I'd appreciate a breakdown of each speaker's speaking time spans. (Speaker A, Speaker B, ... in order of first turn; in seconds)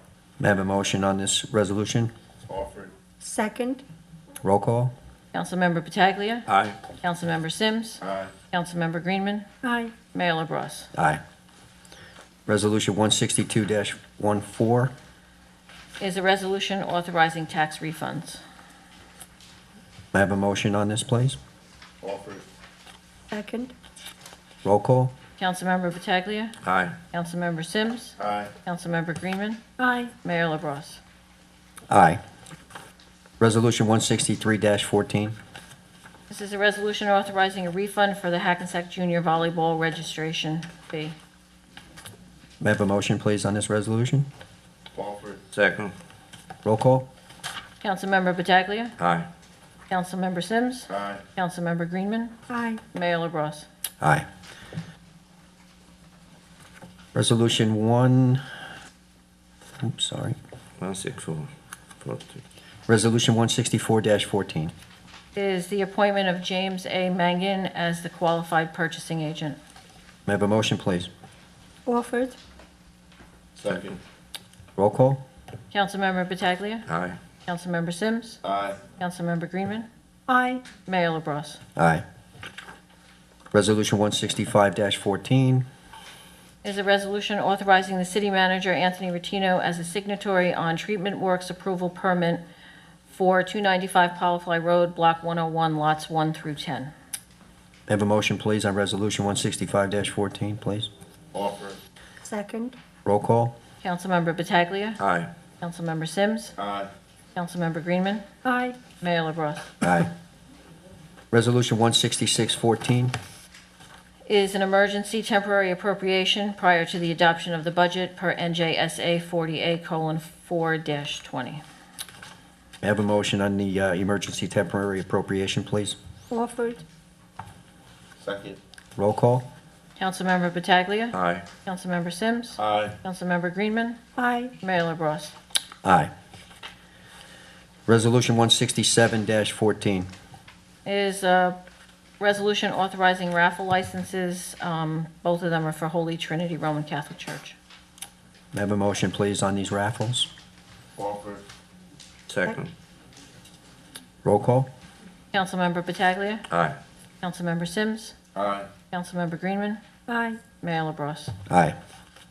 Speaker A: 0.4-2.1, 4.4-4.9, 10.9-11.2, 12.5-14.9, 20.1-21.4, 24.6-25.1, 31.9-32.2, 33.4-35.4, 42.6-44.3, 46.6-47.1, 54.0-54.2, 57.1-58.4, 59.8-60.4, 62.9-64.7, 70.2-71.1, 74.8-75.2, 81.8-82.0, 83.5-85.7, 97.9-100.9, 103.0-103.5, 109.8-110.1, 111.3-113.2, 122.8-126.0, 128.9-129.4, 135.8-136.1, 137.9-140.1, 148.5-150.3, 154.2-154.7, 161.5-161.8
Speaker B: 2.5-2.9, 8.0-8.3, 22.0-22.4, 28.2-28.5, 44.9-45.4, 50.9-51.2, 73.6-74.0, 78.4-78.8, 101.3-101.8, 106.6-106.9, 128.2-128.6, 132.6-133.0, 151.0-151.4, 158.4-158.7
Speaker C: 3.2-3.8, 9.6-9.9, 23.3-23.7, 29.8-30.1, 52.5-52.8, 71.9-72.4, 80.3-80.6, 102.2-102.8, 108.4-108.8, 126.3-126.8, 134.2-134.5, 160.1-160.4
Speaker D: 5.3-6.5, 7.0-9.5, 10.1-10.9, 16.0-18.4, 25.4-26.6, 27.1-29.6, 30.2-31.0, 36.3-41.2, 47.8-48.9, 49.9-52.3, 52.9-53.7, 65.3-69.6, 75.7-76.8, 77.5-78.4, 79.0-79.9, 80.8-81.6, 86.6-92.4, 93.1-96.9, 103.8-105.0, 105.6-106.5, 107.3-108.2, 109.0-109.7, 114.3-121.6, 130.0-134.0, 134.6-135.3, 140.8-141.6, 142.2-147.6, 155.3-156.4, 157.2-158.1, 158.9-159.8, 160.6-161.3
Speaker E: 6.5-6.8, 26.6-27.0, 45.5-45.9, 49.0-49.3, 60.8-61.5, 62.0-62.4, 76.9-77.2, 105.0-105.3, 131.1-131.5, 152.3-152.7, 156.5-156.8